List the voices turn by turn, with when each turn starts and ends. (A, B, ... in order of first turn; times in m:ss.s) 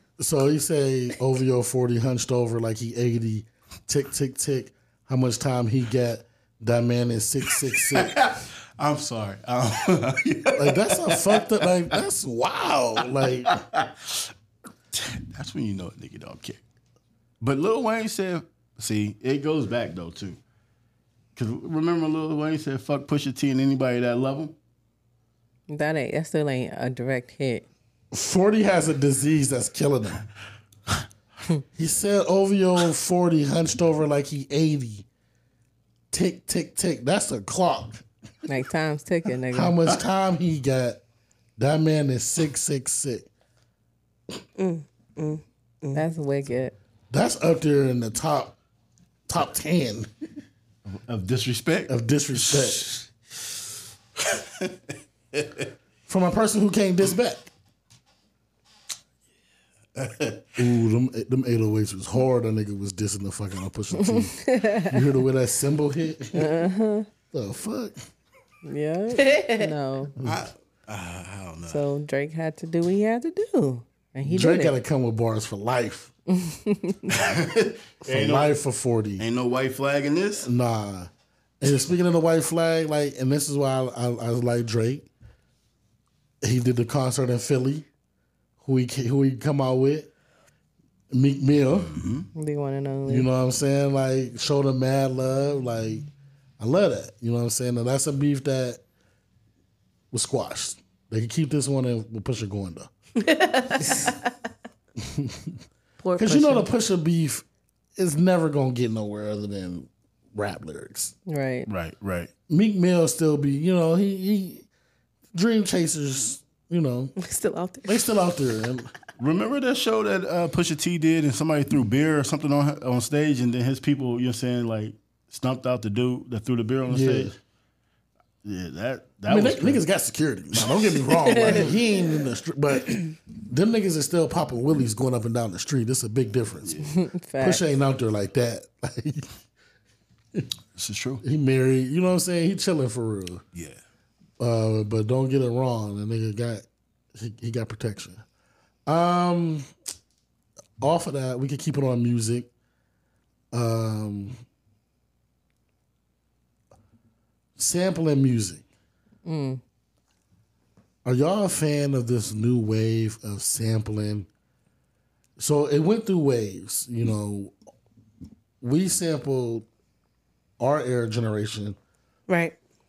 0:00.2-0:08.3 A
0:07.9-0:11.6 B
0:10.5-0:13.6 A
0:13.4-0:14.3 B
0:14.9-0:16.6 B
0:17.4-0:20.4 B
0:21.4-0:24.6 B
0:25.7-0:27.7 C
0:28.1-0:30.2 A
0:31.8-0:35.1 A
0:36.1-0:38.0 A
0:38.5-0:39.8 C
0:39.5-0:41.0 A
0:41.6-0:43.3 A
0:44.6-0:46.0 D
0:46.0-0:46.8 C
0:47.1-0:48.6 A
0:49.3-0:50.1 A
0:50.9-0:53.1 B
0:51.9-0:52.9 A
0:54.3-0:54.7 B
0:55.3-0:55.6 B
0:56.1-0:57.5 A
1:00.0-1:00.5 B
1:00.6-1:06.5 A
1:04.0-1:05.0 C
1:06.4-1:07.1 C
1:07.3-1:08.1 A
1:08.6-1:10.1 C
1:09.2-1:09.7 D
1:10.2-1:10.5 A
1:10.2-1:11.8 B
1:11.7-1:14.8 C
1:14.2-1:16.1 A
1:16.3-1:17.1 C
1:17.1-1:18.6 B
1:18.1-1:19.3 A
1:19.2-1:20.5 B
1:20.4-1:21.1 A
1:21.6-1:25.1 A
1:26.4-1:27.9 A
1:28.6-1:30.1 A
1:31.1-1:32.0 A
1:31.8-1:32.3 B
1:32.4-1:33.3 C
1:33.1-1:36.1 A
1:36.6-1:38.8 A
1:40.1-1:42.9 A
1:43.2-1:44.2 D
1:45.0-1:45.6 A
1:46.0-1:46.7 D
1:46.2-1:47.4 A
1:48.0-1:51.1 A
1:51.3-1:51.7 C
1:51.7-1:52.3 B
1:52.5-1:54.7 A
1:55.3-1:57.2 A
1:57.2-1:58.0 D
1:57.8-1:58.9 A
1:59.2-2:07.4 B
2:06.9-2:07.4 A
2:08.4-2:09.8 B
2:09.3-2:16.8 A
2:10.5-2:11.7 B
2:11.3-2:11.6 D
2:16.9-2:17.6 C
2:17.4-2:19.3 A
2:20.8-2:21.2 B
2:21.2-2:23.4 A
2:24.4-2:28.2 A
2:28.9-2:29.7 A
2:30.8-2:32.5 A
2:33.5-2:34.4 A
2:37.6-2:38.6 A
2:39.2-2:39.6 C
2:41.0-2:44.3 A
2:45.4-2:47.5 A
2:48.6-2:49.7 A
2:50.6-2:51.8 A
2:52.3-2:52.6 D